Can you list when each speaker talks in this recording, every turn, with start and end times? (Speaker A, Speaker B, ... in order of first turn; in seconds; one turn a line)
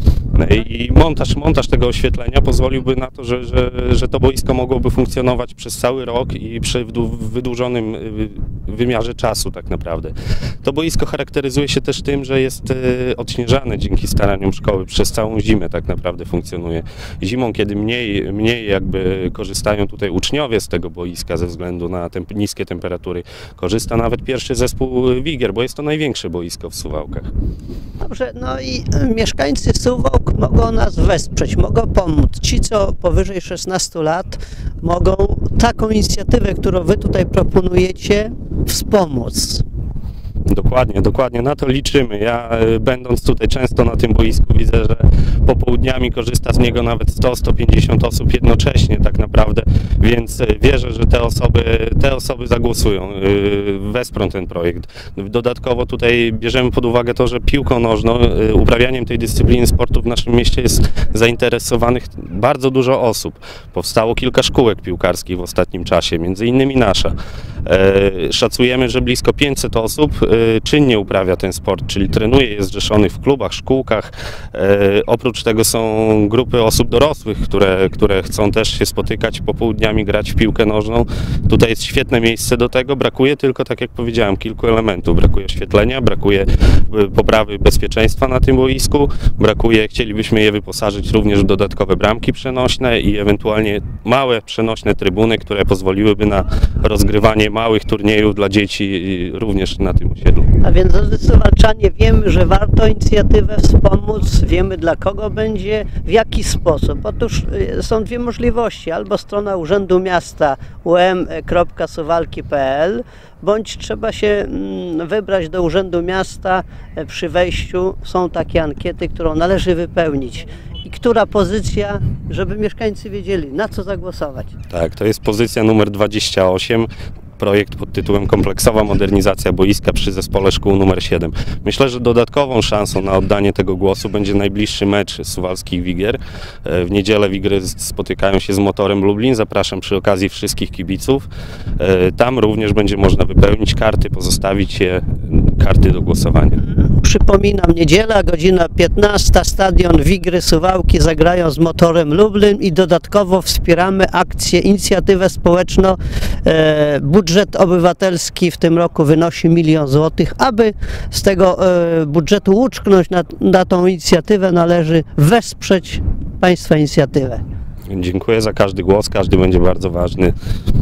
Speaker A: 0.3-27.3
Speaker B: 28.0-39.6
Speaker A: 40.5-100.5
Speaker B: 100.6-124.5
Speaker A: 124.7-141.3
Speaker A: 141.8-146.6
Speaker B: 146.6-167.4
Speaker A: 167.9-170.3